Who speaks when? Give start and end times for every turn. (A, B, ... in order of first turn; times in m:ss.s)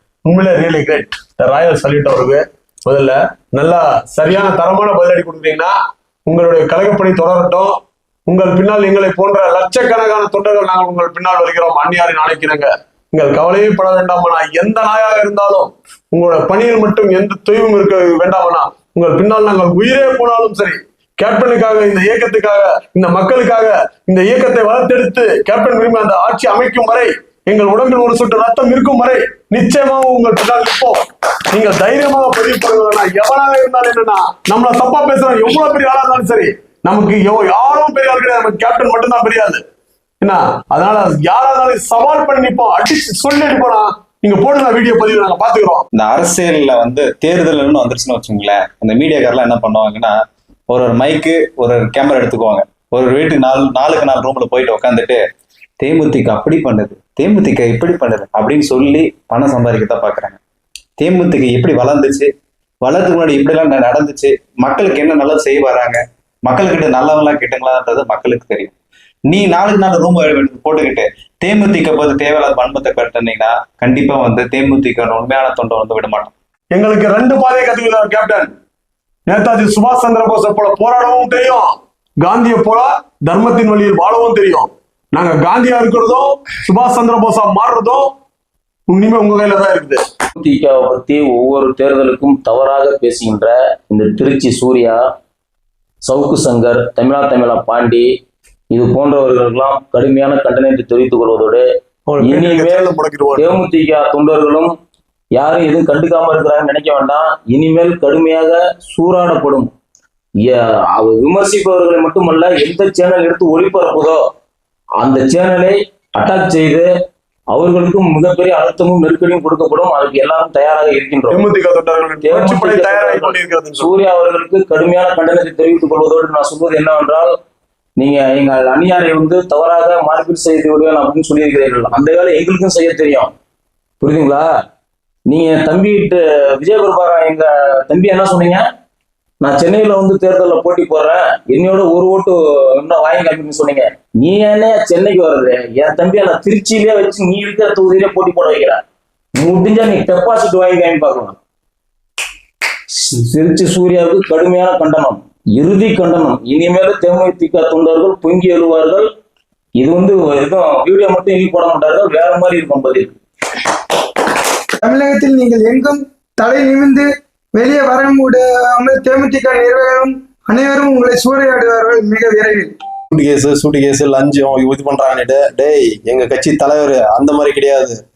0:00.2-0:05.7 A
0:06.3-0:07.8 A
0:08.3-0:31.0 A
0:31.5-0:39.6 A
0:40.2-0:45.8 A
0:45.9-0:50.1 B
0:50.7-0:55.2 B
0:55.8-1:00.4 B
1:01.0-1:02.3 B
1:02.8-1:08.7 B
1:09.3-1:16.3 B
1:16.7-1:18.5 A
1:19.3-1:28.1 A
1:28.9-1:30.0 A
1:30.4-1:35.0 C
1:36.0-1:38.1 C
1:38.7-1:41.6 C
1:42.1-1:43.6 A
1:42.2-1:42.8 C
1:43.4-1:44.7 C
1:45.3-1:49.7 C
1:50.4-1:54.2 C
1:55.0-1:56.9 C
1:57.5-2:01.4 C
2:01.3-2:03.9 A
2:02.2-2:07.3 C
2:08.0-2:13.3 C
2:14.0-2:14.5 C
2:15.3-2:18.6 C
2:19.4-2:28.8 C
2:29.4-2:31.4 C
2:32.9-2:39.1 C
2:39.8-2:43.1 C
2:44.8-2:52.7 D
2:53.1-2:58.0 E